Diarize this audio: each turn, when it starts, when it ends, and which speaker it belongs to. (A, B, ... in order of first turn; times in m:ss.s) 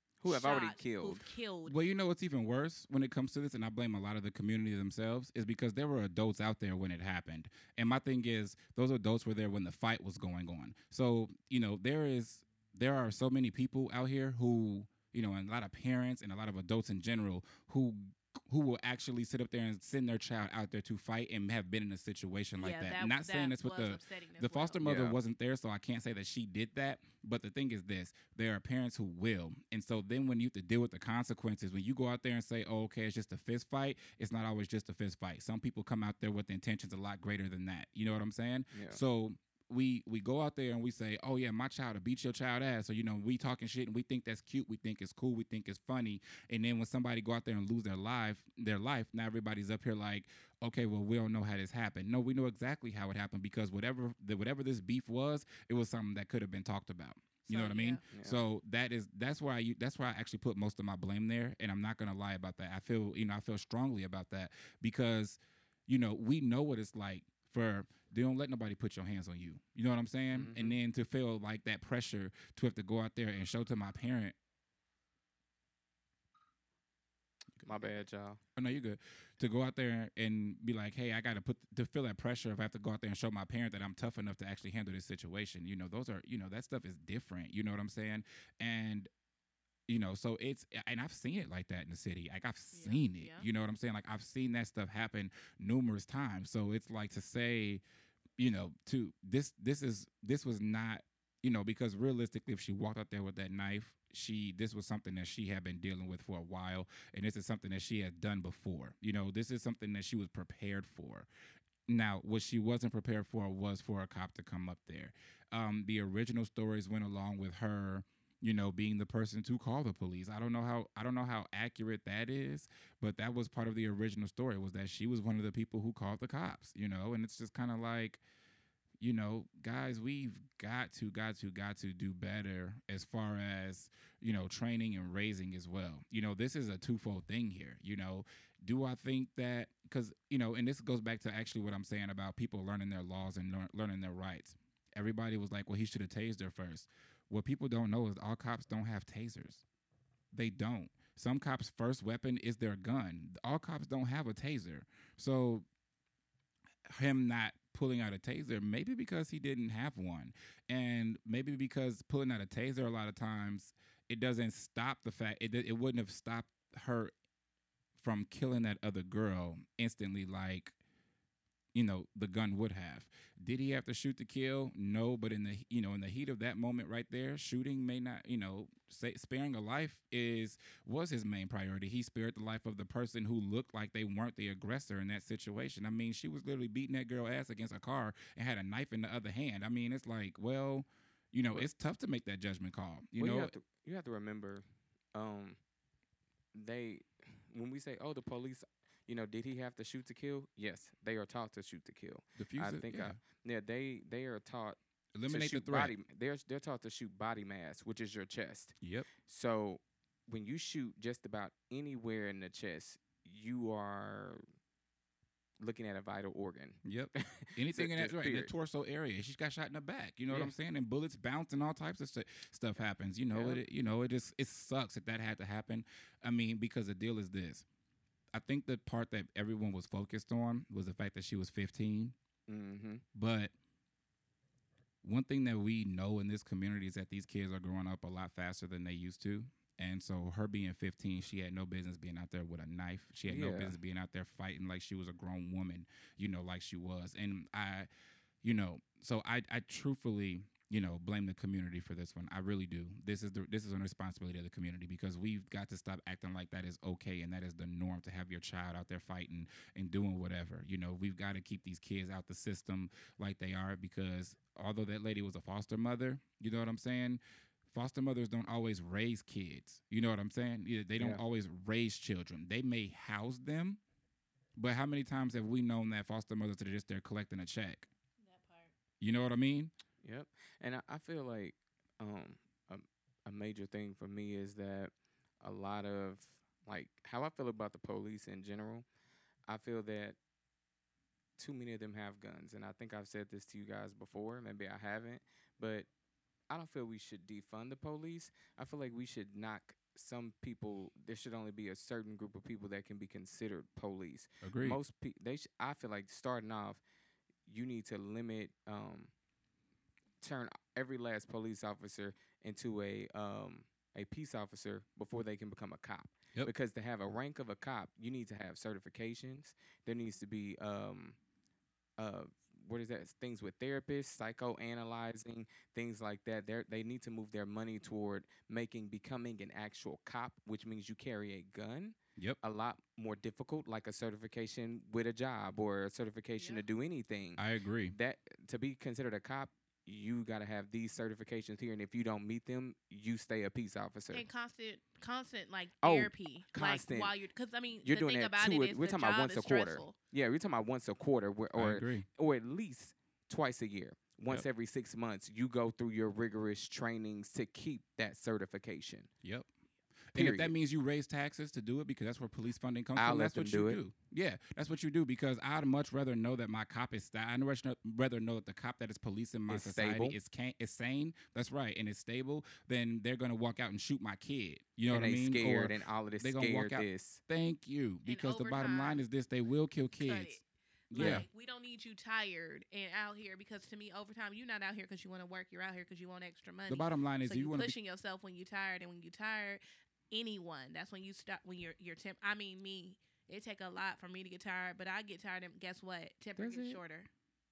0:00.2-0:01.3 A
0:00.2-0:01.8 B
0:01.6-1:14.3 C
0:22.6-0:24.8 B
0:24.8-0:25.2 A
0:38.7-0:39.0 A
0:57.5-0:58.0 B
0:58.1-0:58.4 A
1:10.3-1:10.8 A
1:17.6-1:18.4 A
1:18.6-1:29.1 C
1:29.9-1:37.8 C
1:32.7-1:33.5 B
1:38.4-1:51.3 C
1:51.9-2:08.2 C
2:09.0-2:29.6 C
2:30.3-2:35.6 C
2:36.8-2:47.1 C
2:48.0-2:50.8 C
2:51.7-3:13.5 C
3:13.2-3:15.6 A
3:16.5-3:34.4 A
3:22.4-3:23.2 C
3:25.1-3:25.9 C
3:28.8-3:29.1 C
3:35.6-3:38.5 A
3:36.8-3:47.6 C
3:43.3-3:43.6 A
3:48.3-3:52.2 C
3:52.5-3:53.0 A
3:53.1-3:53.5 C
3:55.0-4:07.9 C
4:03.2-4:03.8 A
4:08.4-4:33.8 C
4:31.0-4:31.2 A
4:34.6-4:37.9 C
4:38.2-4:38.7 B
4:39.0-4:39.7 C
4:40.0-4:48.8 A
4:49.5-4:50.2 A
4:51.4-4:55.9 A
4:56.5-5:06.8 A
5:04.4-5:04.8 C
5:07.4-5:09.1 A
5:10.2-5:21.2 A
5:22.0-5:44.2 A
5:36.4-5:36.6 B
5:37.4-5:38.0 C
5:44.1-5:50.0 B
5:45.8-5:47.2 A
5:47.8-5:59.1 A
5:51.5-5:52.1 C
5:59.2-5:59.5 C
6:00.1-6:20.4 C
6:00.1-6:00.5 A
6:03.0-6:03.8 A
6:09.5-6:10.2 A
6:14.9-6:17.2 A
6:18.0-6:19.0 B
6:20.0-6:37.1 B
6:20.9-6:21.2 C
6:21.0-6:21.2 A
6:26.7-6:27.7 C
6:36.4-6:36.8 A